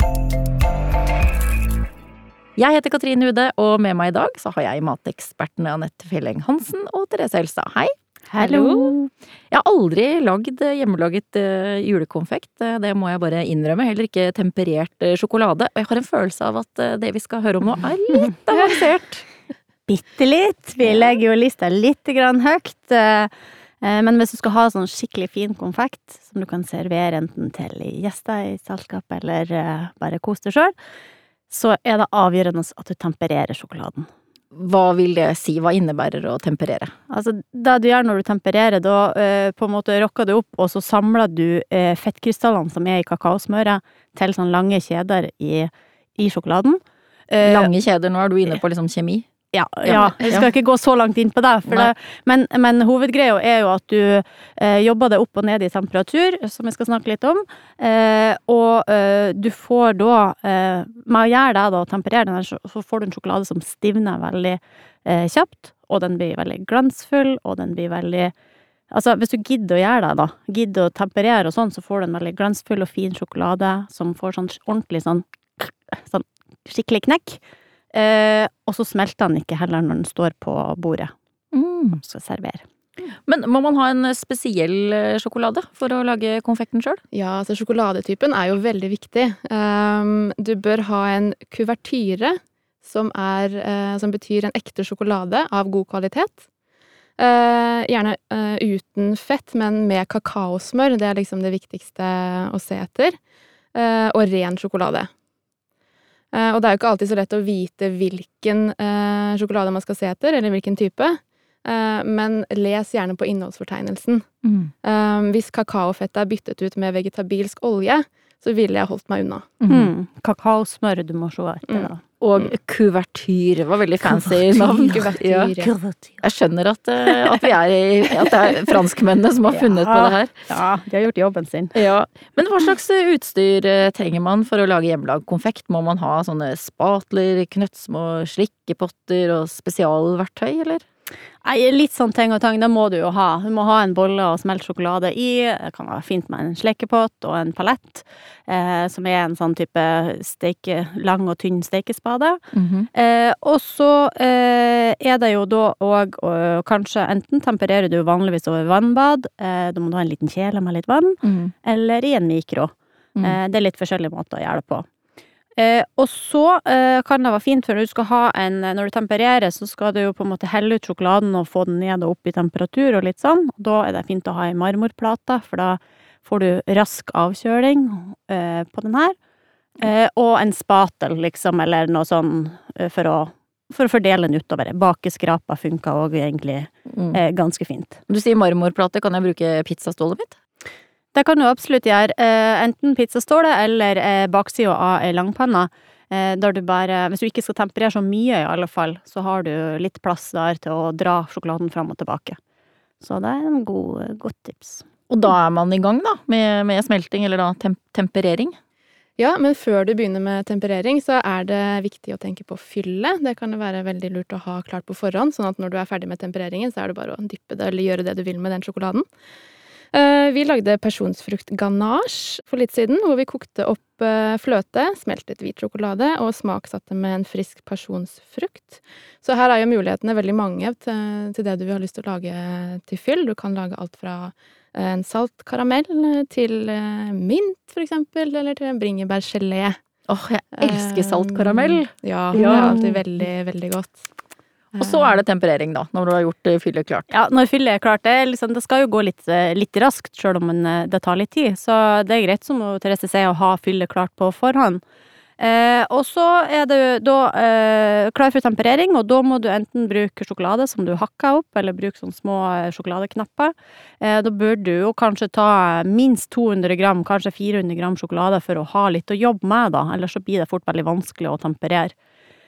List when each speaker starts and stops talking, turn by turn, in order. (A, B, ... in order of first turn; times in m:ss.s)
0:02.6-0:09.0 A
0:08.3-0:09.1 B
0:09.5-0:19.2 A
0:19.9-0:23.3 B
0:23.8-0:30.7 B
0:31.5-0:34.1 B
0:34.5-0:36.9 A
0:37.1-0:47.7 B
0:47.4-0:49.3 A
0:49.5-1:08.3 B
0:49.8-0:50.5 A
0:51.7-0:51.9 A
1:08.9-1:17.4 B
1:17.9-1:21.1 B
1:21.5-1:22.0 A
1:22.0-1:22.6 B
1:23.3-1:27.0 A
1:27.1-1:36.5 C
1:37.2-1:43.2 C
1:43.7-1:45.1 C
1:46.3-1:54.3 C
1:54.4-1:54.7 A
1:54.8-1:59.5 C
1:59.6-1:59.9 A
1:59.7-2:02.0 B
2:01.7-2:02.5 C
2:02.2-2:05.5 A
2:04.0-2:04.9 B
2:04.6-2:05.7 C
2:05.6-2:06.2 B
2:06.2-2:10.4 A
2:07.1-2:07.4 B
2:08.2-2:08.7 B
2:09.5-2:11.7 B
2:11.7-2:20.8 A
2:21.4-2:32.4 B
2:32.5-2:32.9 A
2:32.9-2:44.8 B
2:41.2-2:41.5 A
2:45.6-2:59.1 B
2:59.8-3:08.0 B
3:06.9-3:07.2 A
3:08.1-3:10.4 A
3:11.1-3:22.4 B
3:23.0-3:24.8 B
3:25.1-3:28.6 A
3:29.2-3:39.0 C
3:39.9-3:59.8 C
4:00.1-4:02.9 A
4:00.6-4:04.1 C
4:02.3-4:02.9 B
4:04.7-4:07.1 A
4:04.8-4:05.2 C
4:07.1-4:14.8 B
4:15.4-4:31.9 B